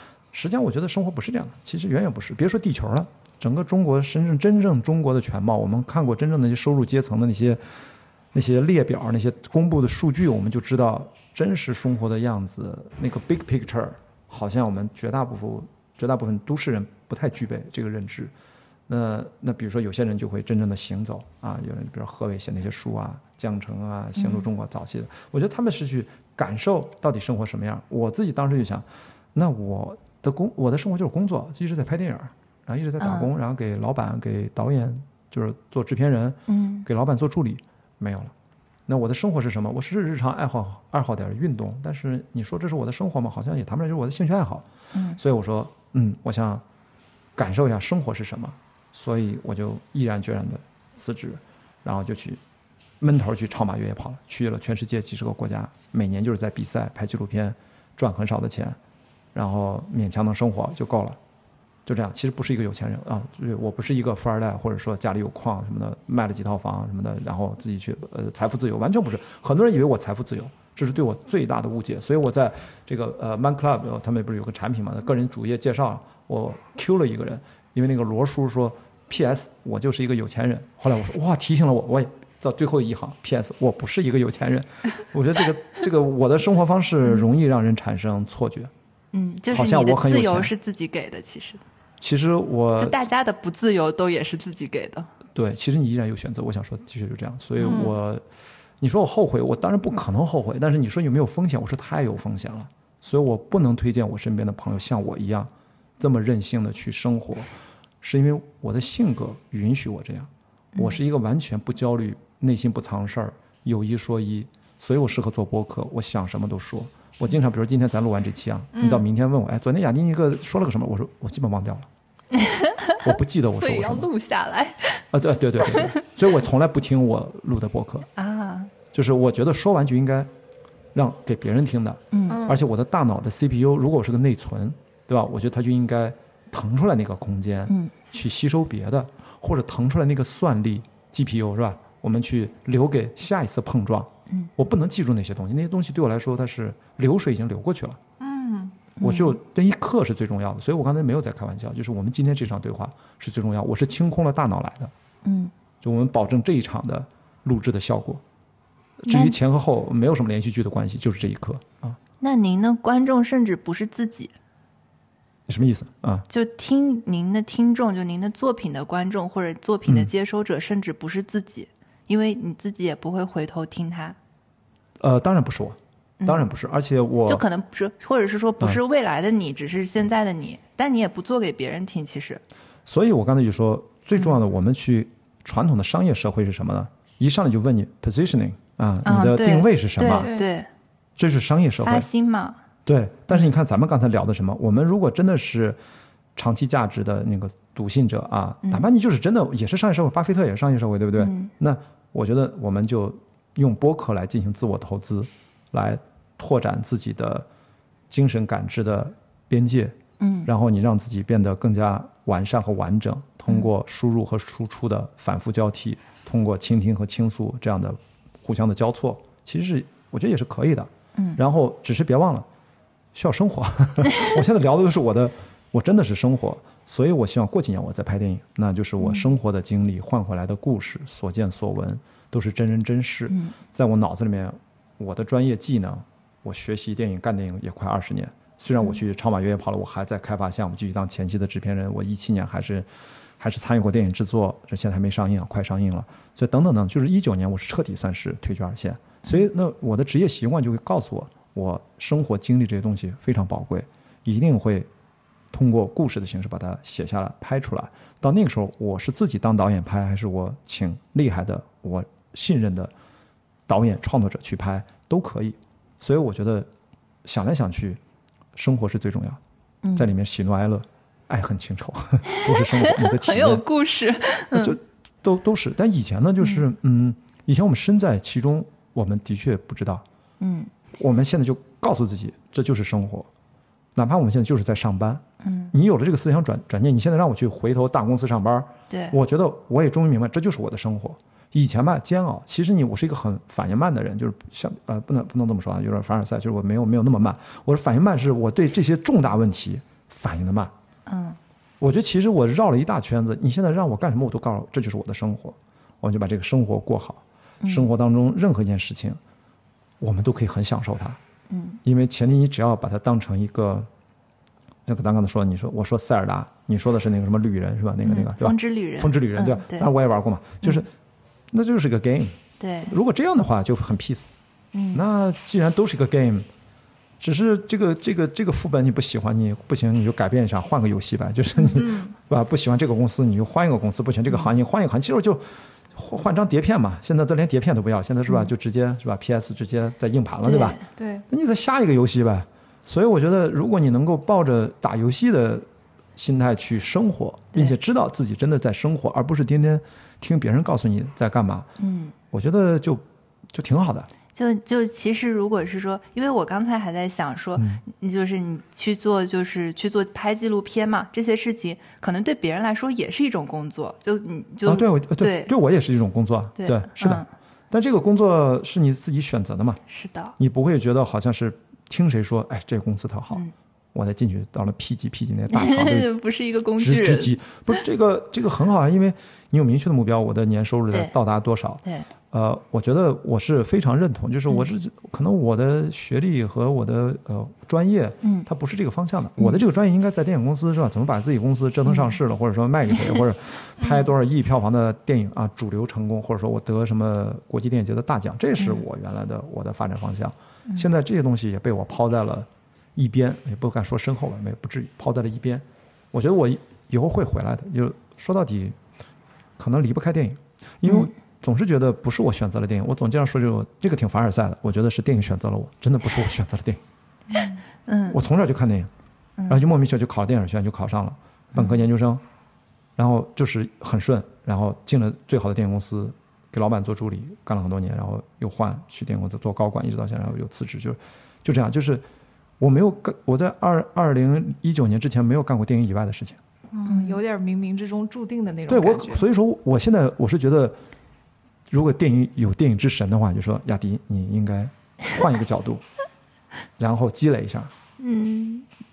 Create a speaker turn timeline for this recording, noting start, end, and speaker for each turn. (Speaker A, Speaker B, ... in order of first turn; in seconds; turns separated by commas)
Speaker A: 0.3-7.8, Speaker A: 8.3-18.3, Speaker A: 18.9-38.3, Speaker B: 24.2-24.5, Speaker B: 33.0-33.3, Speaker B: 36.5-36.9, Speaker A: 38.9-46.6, Speaker B: 44.9-45.2, Speaker A: 47.4-52.4, Speaker A: 53.0-58.8, Speaker A: 59.3-61.2, Speaker A: 61.9-88.7, Speaker B: 89.1-91.6, Speaker A: 89.5-90.5, Speaker A: 92.0-93.0, Speaker B: 92.8-95.1, Speaker A: 95.3-98.2, Speaker B: 97.6-98.0, Speaker A: 98.8-107.5, Speaker A: 108.0-121.9, Speaker C: 118.8-119.0, Speaker B: 122.3-125.0, Speaker A: 123.0-124.1, Speaker A: 125.1-128.1, Speaker B: 125.6-126.0, Speaker B: 128.2-128.7, Speaker A: 128.9-130.3, Speaker A: 130.9-148.0, Speaker B: 132.1-132.6, Speaker C: 148.2-148.8, Speaker A: 149.0-154.9, Speaker B: 149.0-149.4, Speaker B: 155.2-155.5, Speaker A: 155.8-158.2, Speaker A: 159.0-162.0, Speaker B: 159.1-159.4, Speaker B: 162.2-164.3, Speaker A: 165.5-166.2, Speaker B: 166.3-174.2, Speaker A: 175.0-177.4, Speaker B: 176.2-176.5, Speaker B: 177.3-182.4, Speaker A: 182.8-190.3, Speaker B: 189.0-190.7, Speaker C: 190.1-190.5, Speaker A: 191.2-192.1, Speaker B: 191.8-192.6, Speaker A: 192.8-195.8, Speaker A: 196.3-207.5, Speaker B: 201.2-201.5, Speaker A: 208.1-222.4, Speaker B: 210.2-210.5, Speaker A: 223.1-242.8, Speaker B: 229.0-229.3, Speaker B: 233.3-233.5, Speaker A: 243.4-254.9, Speaker A: 255.5-262.9, Speaker A: 263.7-266.7, Speaker A: 267.2-268.0, Speaker A: 268.5-269.4, Speaker B: 269.8-270.1, Speaker A: 269.9-273.6, Speaker B: 272.3-274.8, Speaker A: 274.5-280.0, Speaker B: 280.4-280.7, Speaker A: 281.0-283.3, Speaker A: 283.9-300.7, Speaker B: 285.4-285.7, Speaker B: 288.9-289.2, Speaker B: 301.1-301.4, Speaker A: 301.8-309.2, Speaker B: 307.6-307.9, Speaker A: 310.0-311.2, Speaker B: 311.5-311.8, Speaker A: 311.8-313.9, Speaker A: 314.9-320.9, Speaker B: 318.0-319.9, Speaker A: 321.5-322.4, Speaker B: 322.6-322.9, Speaker A: 322.9-324.3, Speaker B: 324.7-325.0, Speaker A: 324.9-326.5, Speaker A: 327.2-351.7, Speaker B: 331.6-331.9, Speaker B: 340.4-340.8, Speaker C: 341.0-341.2, Speaker B: 351.8-352.1, Speaker A: 352.3-353.0, Speaker A: 353.5-354.1, Speaker B: 354.3-365.5, Speaker A: 357.6-357.8, Speaker A: 364.6-369.8, Speaker B: 366.6-367.3, Speaker B: 369.9-370.3, Speaker A: 370.4-376.1, Speaker B: 375.5-377.4, Speaker A: 376.8-408.8, Speaker B: 381.8-382.1, Speaker B: 388.2-388.5, Speaker B: 389.4-389.6, Speaker B: 391.9-392.2, Speaker A: 409.6-416.8, Speaker B: 410.8-411.1, Speaker B: 417.3-418.2, Speaker A: 418.1-418.9, Speaker B: 419.4-419.6, Speaker A: 419.5-422.2, Speaker B: 421.6-421.8, Speaker A: 423.0-432.0, Speaker A: 432.6-436.4, Speaker C: 436.7-439.2, Speaker B: 436.9-437.2, Speaker A: 438.7-440.8, Speaker A: 441.7-445.8, Speaker A: 446.8-447.7, Speaker B: 448.0-448.6